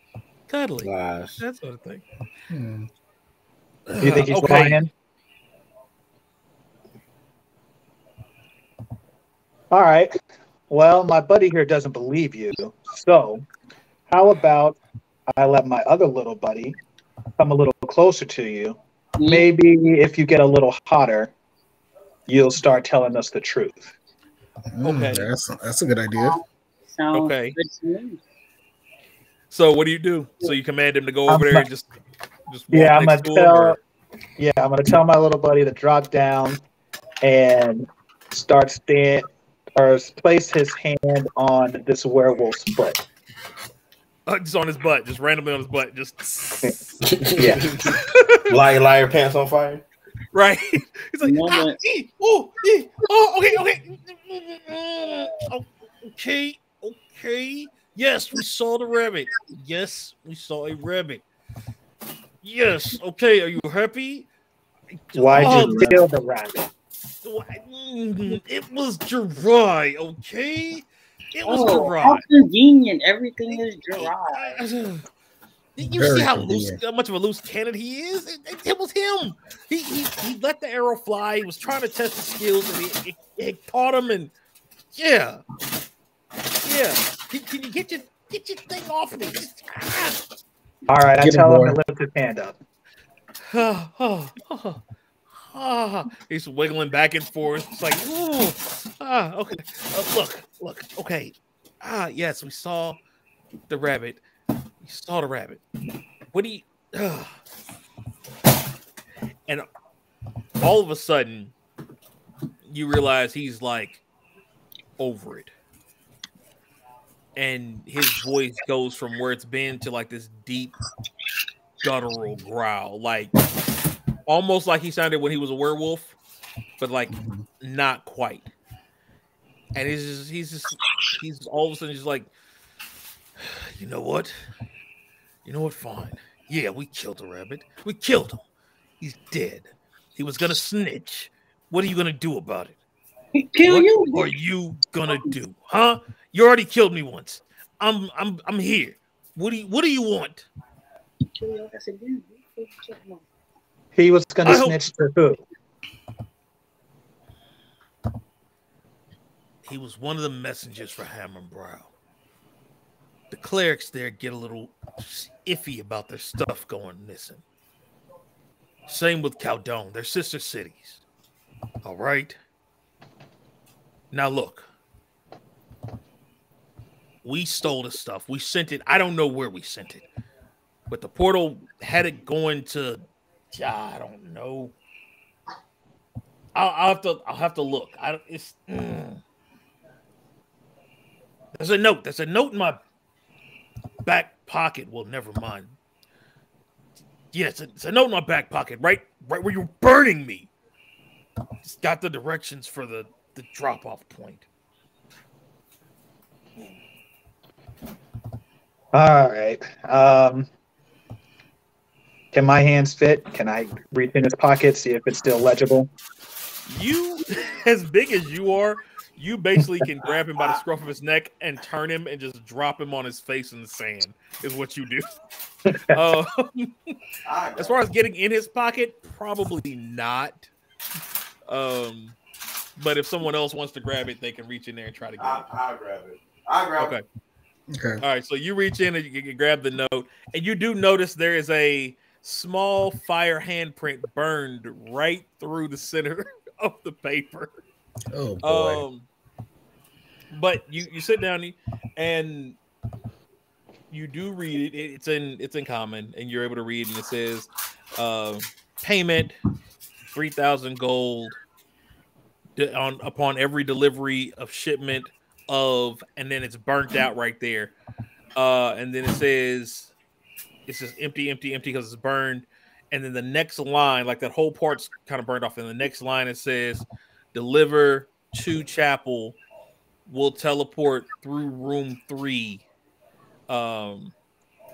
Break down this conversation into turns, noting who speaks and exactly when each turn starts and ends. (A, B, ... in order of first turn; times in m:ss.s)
0:00.5-0:02.0 A
0:00.8-0:01.4 B
0:02.5-0:02.9 C
0:03.9-0:04.8 A
0:04.0-0:04.9 D
0:09.7-0:10.1 D
0:10.7-0:13.4 D
0:14.1-0:14.8 D
0:15.3-0:16.8 D
0:17.4-0:21.3 D
0:19.2-0:19.5 E
0:22.3-0:23.9 D
0:24.7-0:26.4 C
0:24.8-0:25.3 A
0:26.9-0:28.2 E
0:27.1-0:27.6 A
0:29.5-0:31.9 A
0:31.3-0:31.6 D
0:32.5-0:33.8 A
0:32.7-0:33.8 D
0:34.4-0:36.6 D
0:37.2-0:43.0 D
0:44.3-0:46.8 A
0:47.0-0:47.9 B
0:47.8-0:48.6 A
0:48.5-0:49.8 B
0:50.3-1:01.2 A
0:51.2-0:51.8 E
1:02.4-1:04.3 A
1:05.1-1:06.0 A
1:05.1-1:06.7 D
1:05.3-1:05.9 B
1:07.2-1:12.2 A
1:11.4-1:14.6 E
1:14.0-1:15.0 A
1:15.8-1:24.3 A
1:15.8-1:16.8 C
1:24.9-1:25.4 A
1:26.6-1:30.2 A
1:30.9-1:32.6 D
1:31.2-1:31.8 C
1:33.5-1:34.8 A
1:35.5-1:43.0 A
1:43.7-1:44.2 A
1:44.8-1:45.6 A
1:46.3-1:47.3 A
1:50.6-1:51.5 A
1:52.7-1:54.0 A
1:55.0-1:55.5 A
1:57.4-2:00.8 A
2:01.8-2:03.3 A
2:04.2-2:06.1 A
2:06.8-2:08.5 A
2:07.1-2:07.4 C
2:09.7-2:12.3 A
2:13.4-2:14.3 A
2:15.4-2:18.4 A
2:19.0-2:22.8 A
2:23.3-2:24.3 E
2:23.6-2:30.5 A
2:31.3-2:33.2 E
2:34.0-2:35.4 D
2:34.4-2:34.8 A
2:39.6-2:41.9 A
2:43.3-2:47.4 A
2:48.9-2:51.0 A
2:51.8-2:52.4 A
2:54.1-2:54.7 A
2:57.2-3:00.0 A
3:00.9-3:04.7 A
3:06.5-3:09.2 A
3:11.5-3:12.8 A
3:14.0-3:15.7 A
3:17.3-3:20.5 A
3:21.6-3:24.4 A
3:28.9-3:30.5 D
3:32.3-3:35.9 D
3:36.7-3:45.1 A
3:45.7-3:46.0 D
3:45.9-3:46.7 A
3:47.2-3:47.8 B
3:47.6-3:50.5 A
3:51.5-3:52.2 A
3:52.8-3:55.4 A
3:55.2-3:56.9 B
3:56.8-3:57.0 A
3:57.7-3:58.0 C
3:58.0-4:07.5 A
4:08.1-4:08.8 C
4:08.4-4:09.1 A
4:10.3-4:12.6 A
4:13.9-4:19.4 A
4:20.1-4:21.4 A
4:22.6-4:27.7 A
4:28.4-4:29.9 A
4:30.7-4:39.4 A
4:40.1-4:42.6 A
4:43.5-4:44.1 A